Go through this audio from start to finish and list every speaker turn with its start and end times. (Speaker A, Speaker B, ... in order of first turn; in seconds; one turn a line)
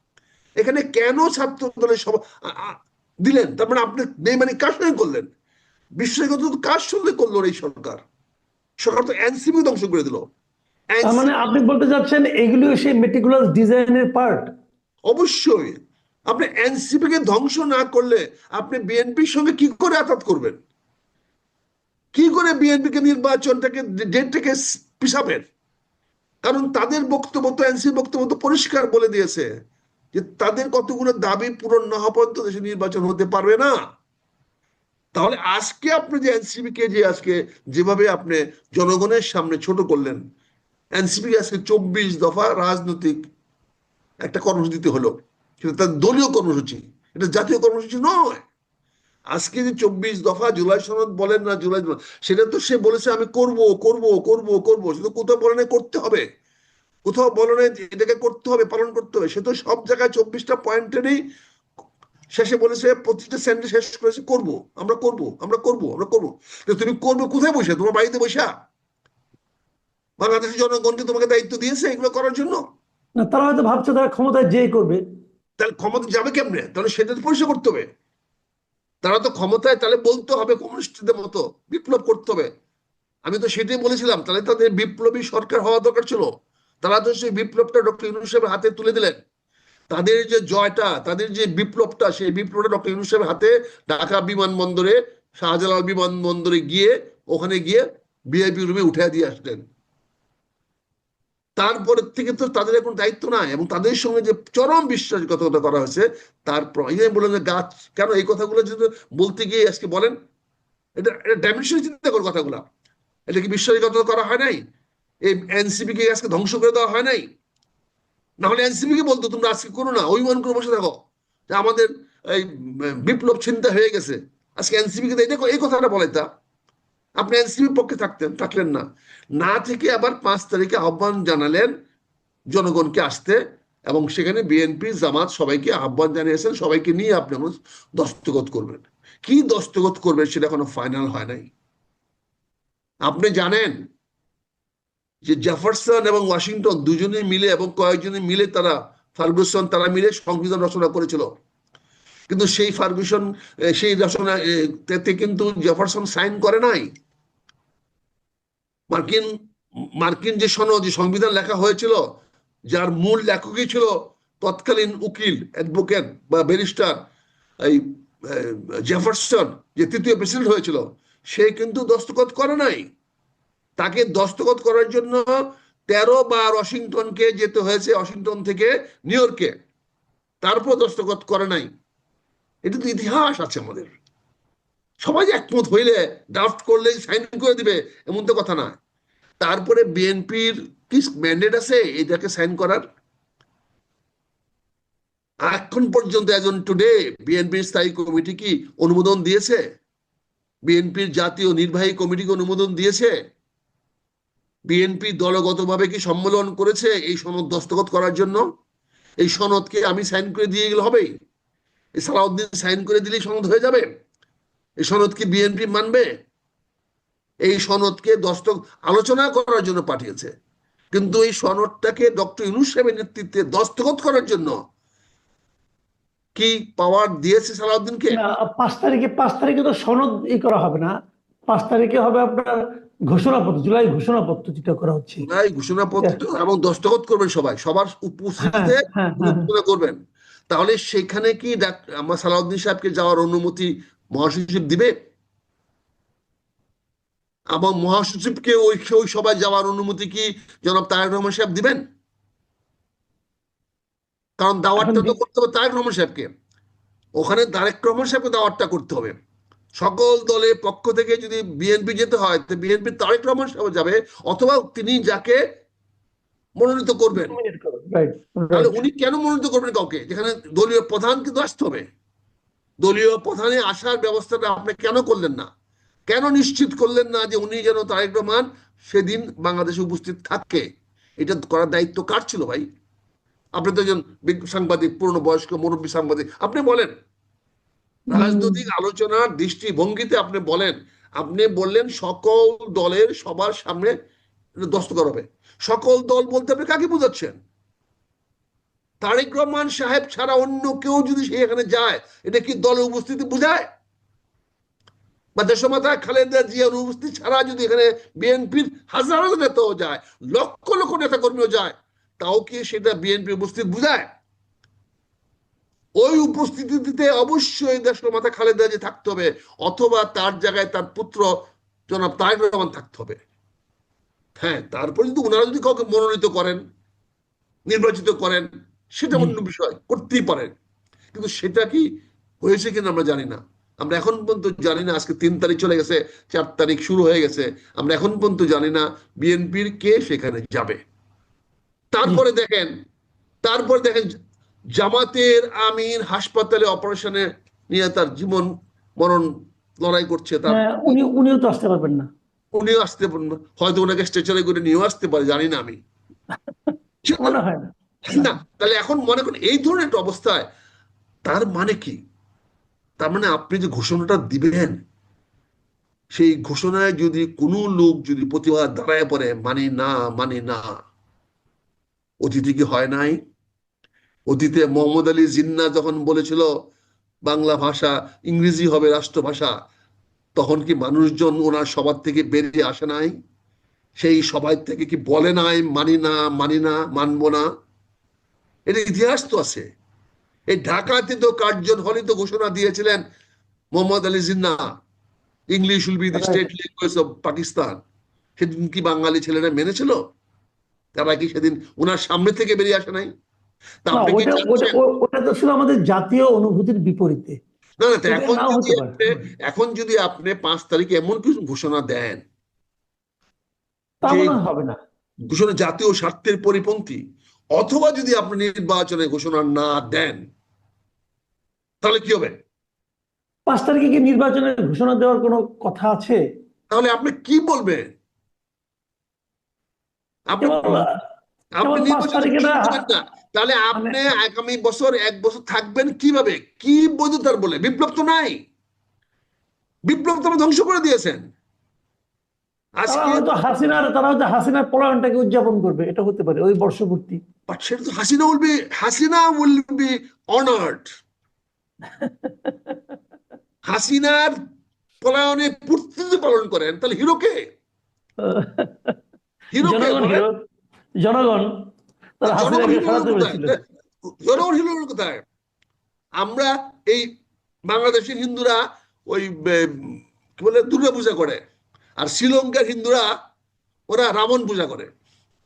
Speaker A: 0.6-5.3
Speaker A: 6.0-8.0
Speaker A: 8.8-10.2
Speaker A: 10.9-11.5
Speaker B: 11.0-14.4
Speaker A: 15.1-15.8
Speaker A: 16.3-20.6
Speaker A: 22.1-25.4
Speaker A: 26.4-29.5
Speaker A: 30.1-33.7
Speaker A: 35.1-40.2
Speaker A: 41.0-43.2
Speaker A: 44.2-48.4
Speaker A: 49.3-56.2
Speaker A: 57.0-61.2
Speaker A: 62.3-68.5
Speaker A: 70.2-72.6
Speaker B: 73.2-75.0
Speaker A: 75.6-77.8
Speaker A: 79.0-82.5
Speaker A: 83.2-86.3
Speaker A: 86.8-89.2
Speaker A: 89.9-99.6
Speaker A: 101.6-110.1
Speaker A: 111.0-112.6
Speaker A: 113.3-114.6
Speaker A: 115.2-117.2
Speaker A: 118.4-121.0
Speaker A: 121.5-126.2
Speaker A: 127.2-128.8
Speaker A: 129.4-131.7
Speaker A: 132.5-141.5
Speaker A: 143.1-143.7
Speaker A: 145.2-151.3
Speaker A: 152.3-156.9
Speaker A: 158.9-159.3
Speaker A: 160.0-162.0
Speaker A: 162.7-167.0
Speaker A: 167.6-172.8
Speaker A: 173.8-175.2
Speaker A: 175.9-179.5
Speaker A: 180.4-181.7
Speaker A: 182.7-183.9
Speaker A: 185.0-188.8
Speaker A: 189.4-192.8
Speaker A: 195.5-199.6
Speaker A: 200.7-203.1
Speaker A: 204.7-208.4
Speaker A: 209.2-211.1
Speaker A: 212.0-213.8
Speaker A: 214.8-216.1
Speaker A: 217.4-220.3
Speaker A: 220.9-224.5
Speaker A: 226.3-228.2
Speaker B: 228.1-230.9
Speaker B: 231.5-232.6
Speaker B: 233.1-235.2
Speaker A: 235.2-240.0
Speaker B: 238.4-239.5
Speaker A: 240.5-244.9
Speaker A: 247.5-251.8
Speaker A: 254.4-256.3
Speaker B: 254.8-255.2
Speaker A: 257.2-259.1
Speaker A: 259.8-265.4
Speaker A: 266.6-267.3
Speaker B: 267.1-268.8
Speaker A: 268.5-271.9
Speaker A: 272.8-275.5
Speaker A: 276.1-280.6
Speaker A: 281.2-282.6
Speaker A: 283.6-286.9
Speaker B: 288.1-288.6
Speaker A: 288.1-293.9
Speaker A: 294.6-297.4
Speaker A: 299.0-303.6
Speaker A: 305.4-314.1
Speaker A: 316.0-321.3
Speaker A: 321.9-323.2
Speaker A: 324.4-326.6
Speaker A: 327.7-328.5
Speaker A: 329.0-330.5
Speaker A: 331.1-331.9
Speaker A: 332.4-340.8
Speaker A: 341.9-342.7
Speaker A: 343.4-344.1
Speaker A: 344.8-348.5
Speaker A: 349.0-349.3
Speaker A: 349.8-350.9
Speaker B: 350.5-352.1
Speaker A: 352.6-355.8
Speaker B: 356.5-358.3
Speaker A: 357.1-357.4
Speaker A: 358.1-360.4
Speaker A: 361.2-362.0
Speaker A: 363.0-364.8
Speaker A: 366.1-370.6
Speaker A: 372.2-373.2
Speaker A: 374.3-376.5
Speaker A: 377.2-379.5
Speaker A: 380.4-383.1
Speaker A: 384.0-387.4
Speaker A: 388.7-389.6
Speaker A: 390.5-393.0
Speaker A: 393.7-394.7
Speaker A: 395.5-397.8
Speaker B: 396.1-396.4
Speaker A: 398.4-400.0
Speaker A: 400.9-403.1
Speaker A: 403.8-404.8
Speaker B: 403.9-407.4
Speaker A: 407.8-412.2
Speaker B: 408.1-409.2
Speaker B: 414.0-414.8
Speaker A: 414.1-414.4
Speaker A: 415.3-417.0
Speaker A: 417.6-420.2
Speaker A: 421.8-422.3
Speaker B: 423.5-426.2
Speaker A: 426.7-427.9
Speaker A: 430.3-430.8
Speaker B: 430.4-430.9
Speaker A: 431.6-438.4
Speaker B: 431.6-432.8
Speaker B: 433.7-434.0
Speaker A: 439.9-441.2
Speaker A: 442.8-443.3
Speaker B: 442.9-447.2
Speaker A: 447.5-450.9
Speaker B: 451.9-452.7
Speaker A: 453.6-454.3
Speaker A: 455.0-457.4
Speaker B: 458.2-458.9
Speaker A: 459.5-460.2
Speaker B: 459.6-460.3
Speaker B: 461.0-461.5
Speaker B: 462.2-463.6
Speaker A: 462.3-463.6
Speaker A: 464.2-465.2
Speaker A: 466.2-467.1
Speaker A: 467.7-471.4
Speaker A: 472.0-473.1
Speaker A: 473.9-474.9